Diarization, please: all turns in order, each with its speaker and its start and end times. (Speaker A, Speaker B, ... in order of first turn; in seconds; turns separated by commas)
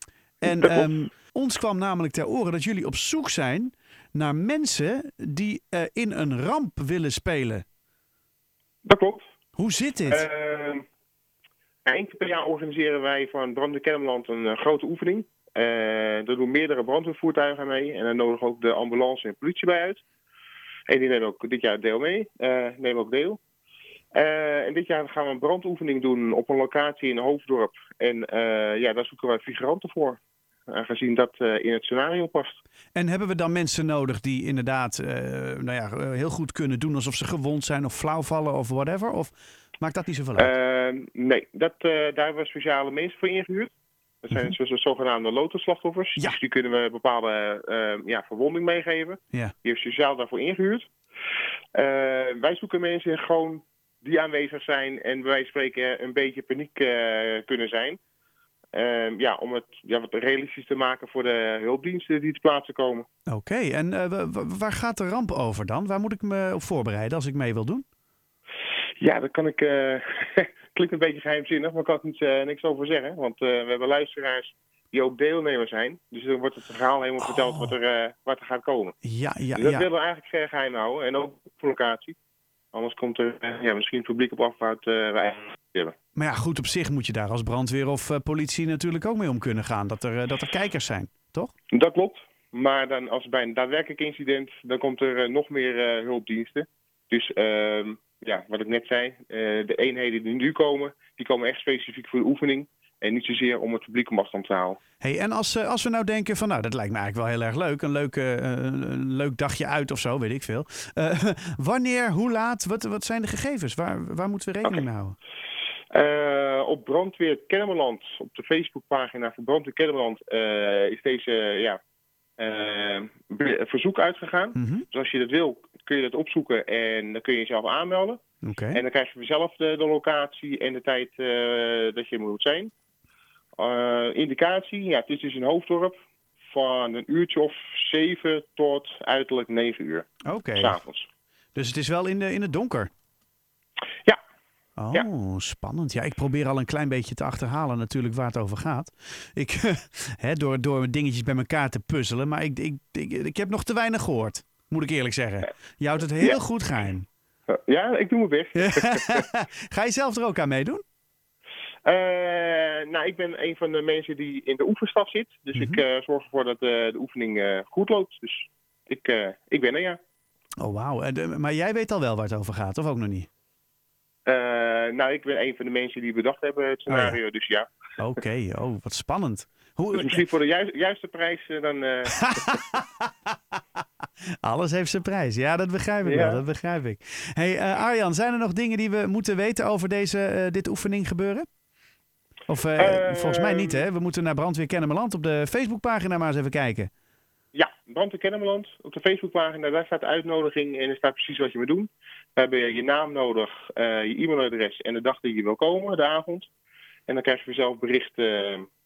Speaker A: 0.4-7.7, Speaker B: 0.5-0.9, Speaker B: 8.8-9.3, Speaker A: 9.6-10.3, Speaker B: 10.1-10.8, Speaker B: 11.8-20.0, Speaker B: 20.9-23.4, Speaker B: 24.1-32.6, Speaker A: 33.0-40.5, Speaker B: 40.4-43.7, Speaker B: 44.2-50.9, Speaker B: 51.8-58.0, Speaker B: 58.7-63.1, Speaker A: 63.3-67.8, Speaker B: 69.0-79.0, Speaker A: 79.0-79.9, Speaker B: 79.5-82.2, Speaker B: 82.7-85.9, Speaker A: 86.2-91.5, Speaker B: 91.7-104.8, Speaker A: 105.0-115.2, Speaker B: 115.9-121.8, Speaker B: 122.4-128.2, Speaker A: 124.6-124.9, Speaker A: 128.4-128.8, Speaker B: 128.7-132.7, Speaker B: 133.6-136.0, Speaker B: 136.5-141.1, Speaker A: 140.2-140.8, Speaker A: 141.6-142.9, Speaker A: 144.8-157.1, Speaker B: 157.5-159.2, Speaker A: 158.6-160.8, Speaker B: 161.8-170.0, Speaker A: 165.6-165.8, Speaker A: 170.6-173.3, Speaker B: 174.3-177.7, Speaker A: 176.9-177.2, Speaker A: 178.0-180.2, Speaker B: 179.9-182.6, Speaker A: 182.2-183.1, Speaker A: 184.4-191.5, Speaker B: 186.0-186.4, Speaker A: 192.5-196.9, Speaker B: 192.8-193.9, Speaker B: 197.5-206.5, Speaker B: 207.1-208.7